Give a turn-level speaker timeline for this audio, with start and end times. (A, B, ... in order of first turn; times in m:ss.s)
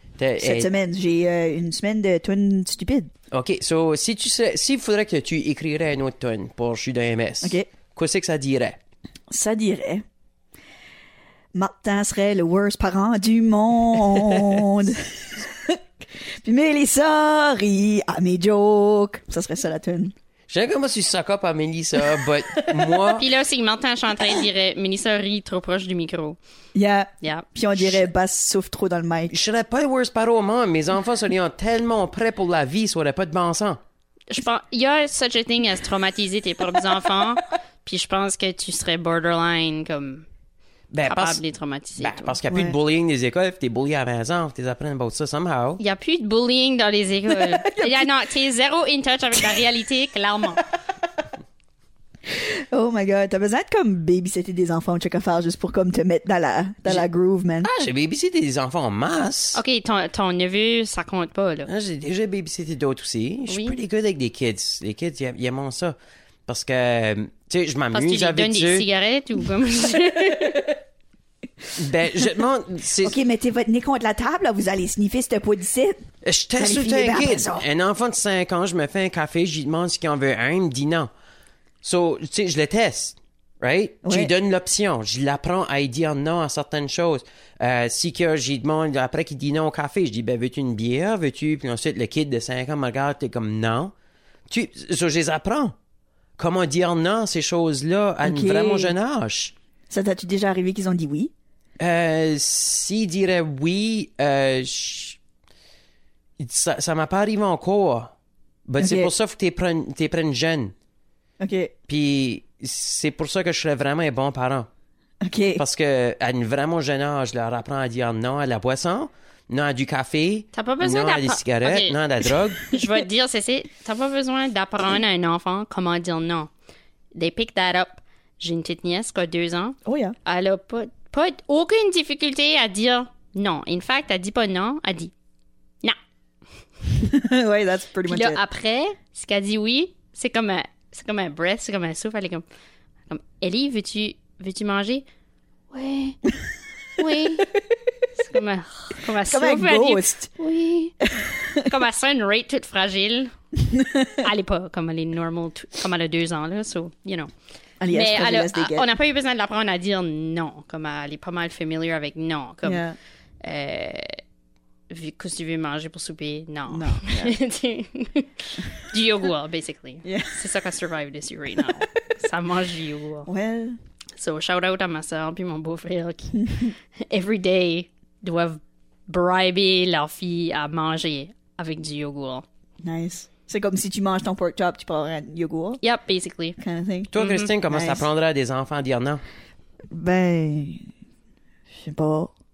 0:00.2-0:00.7 A
0:00.4-0:03.1 B
0:03.3-0:08.8 A
0:07.4-0:07.7 B
0:09.3-0:10.0 B
0:11.5-0:20.1 B
0:20.5-0:23.2 A
0:22.2-0:23.1 B
0:23.2-0:26.4 C
0:26.7-0:29.3 B
0:27.2-0:27.5 C
0:29.3-0:33.8 A
0:34.3-0:40.2 C
0:40.9-0:41.4 A
0:41.0-0:42.4 C
0:42.0-0:45.8 A
0:42.5-0:42.8 B
0:45.8-0:50.6 C
0:47.3-0:48.1 B
0:52.3-0:57.7 B
0:57.6-0:59.6 A
0:59.5-1:01.7 C
1:01.7-1:06.0 A
1:03.5-1:03.7 C
1:06.5-1:08.8 A
1:07.9-1:10.7 C
1:11.7-1:13.2 A
1:13.0-1:16.0 B
1:16.2-1:21.1 A
1:16.6-1:17.6 B
1:21.8-1:33.9 A
1:24.0-1:24.3 B
1:34.5-1:35.7 A
1:36.4-1:39.5 A
1:38.2-1:38.9 B
1:39.9-1:41.3 B
1:41.8-1:45.2 A
1:46.4-1:48.1 A
1:48.7-1:50.7 A
1:48.8-1:49.1 B
1:51.4-1:51.7 B
1:51.9-1:54.7 A
1:55.2-1:55.6 B
1:55.6-2:02.7 A
2:00.5-2:02.0 C
2:02.6-2:06.5 C
2:07.1-2:15.1 C
2:09.8-2:10.1 B
2:16.9-2:18.4 B
2:18.1-2:22.4 C
2:23.1-2:25.0 C
2:25.7-2:26.2 C
2:27.0-2:27.5 C
2:27.4-2:27.8 B
2:28.2-2:31.0 C
2:29.2-2:30.3 B
2:31.0-2:31.6 B
2:31.6-2:33.3 C
2:33.6-2:34.2 B
2:34.2-2:37.3 C
2:37.8-2:38.9 B
2:37.9-2:42.8 C
2:42.6-2:43.0 B
2:43.4-2:44.2 C
2:44.9-2:53.3 C
2:46.7-2:47.4 B
2:50.0-2:50.5 B
2:53.3-2:53.8 B
2:54.2-3:02.4 C
2:56.4-2:56.7 B
3:02.8-3:05.8 B
3:05.8-3:06.6 C
3:06.6-3:07.1 B
3:07.1-3:09.2 A
3:07.2-3:07.5 C
3:07.7-3:08.1 B
3:09.9-3:10.9 B
3:11.7-3:12.3 B